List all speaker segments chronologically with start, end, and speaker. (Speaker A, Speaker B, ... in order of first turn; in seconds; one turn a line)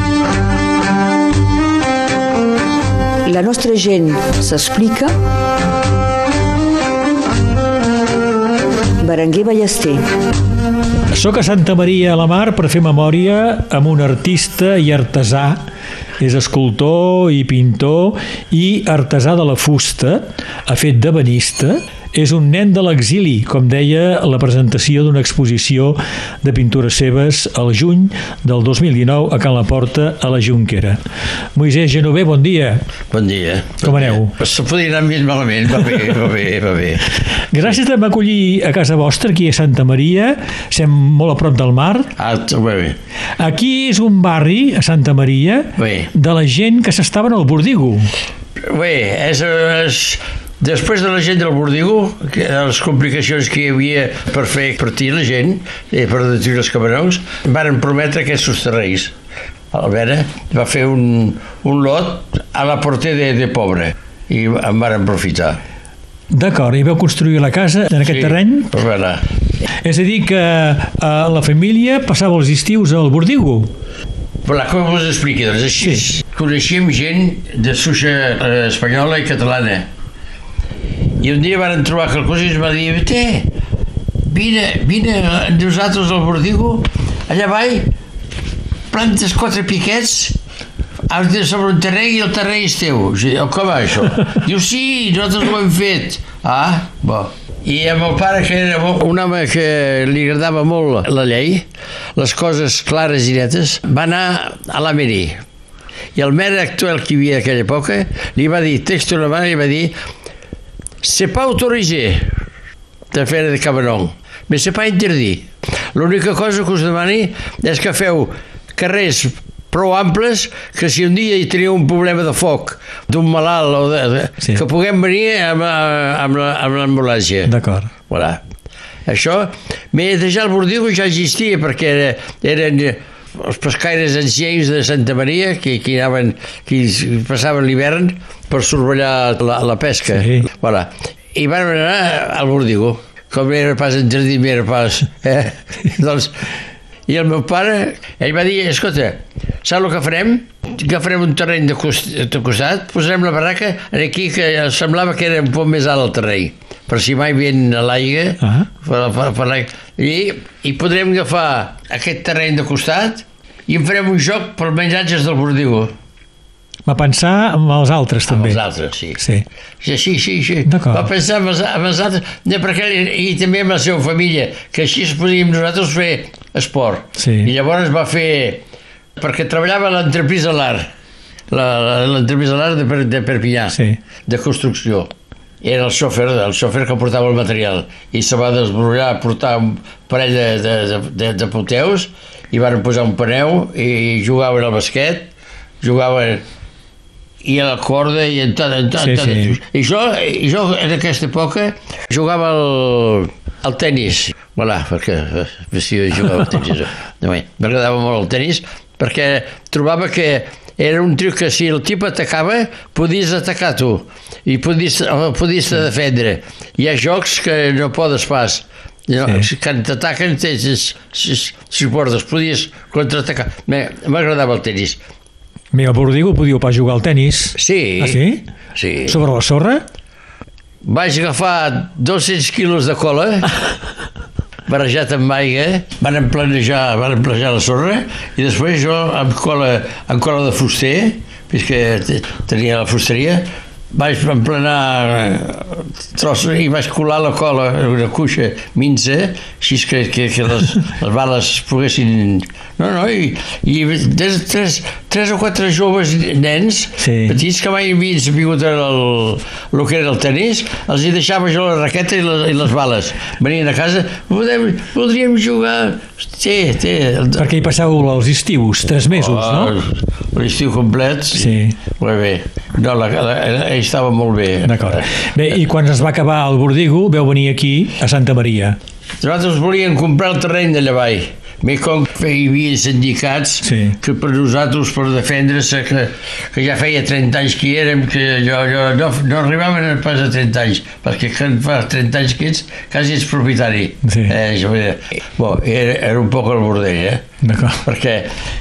Speaker A: 3.2-5.2
Speaker A: 9.0-10.0
Speaker B: 11.1-15.6
Speaker B: 16.2-31.0
Speaker B: 31.6-32.8
Speaker C: 33.1-37.2
Speaker B: 33.8-34.3
Speaker B: 37.5-42.1
Speaker C: 42.2-43.0
Speaker B: 43.4-48.1
Speaker C: 45.8-46.1
Speaker C: 48.6-59.1
Speaker C: 59.7-65.6
Speaker B: 66.3-68.7
Speaker C: 68.0-69.2
Speaker B: 69.8-73.7
Speaker C: 74.5-79.9
Speaker C: 81.2-83.5
Speaker C: 84.2-87.9
Speaker C: 88.9-90.4
Speaker C: 91.1-105.4
Speaker C: 106.2-110.0
Speaker C: 111.0-112.4
Speaker C: 113.1-127.5
Speaker B: 127.5-127.9
Speaker C: 128.1-128.4
Speaker C: 129.1-146.4
Speaker B: 140.1-140.4
Speaker C: 147.1-165.9
Speaker B: 158.4-158.7
Speaker B: 166.9-168.6
Speaker C: 168.3-169.2
Speaker B: 169.2-169.4
Speaker C: 169.8-178.6
Speaker B: 170.7-171.1
Speaker B: 177.2-177.5
Speaker C: 179.2-180.9
Speaker C: 181.5-185.1
Speaker C: 185.6-195.3
Speaker C: 195.8-196.4
Speaker C: 197.4-225.0
Speaker B: 199.0-199.5
Speaker B: 225.7-228.4
Speaker C: 227.6-228.2
Speaker C: 228.8-229.2
Speaker B: 229.1-229.8
Speaker C: 230.8-233.5
Speaker C: 234.7-267.5
Speaker B: 257.0-257.4
Speaker B: 267.4-269.7
Speaker C: 269.1-275.1
Speaker B: 271.4-271.8
Speaker B: 274.6-278.8
Speaker C: 279.2-297.2
Speaker B: 283.6-284.0
Speaker B: 294.1-294.3
Speaker B: 297.4-297.8
Speaker C: 297.8-298.3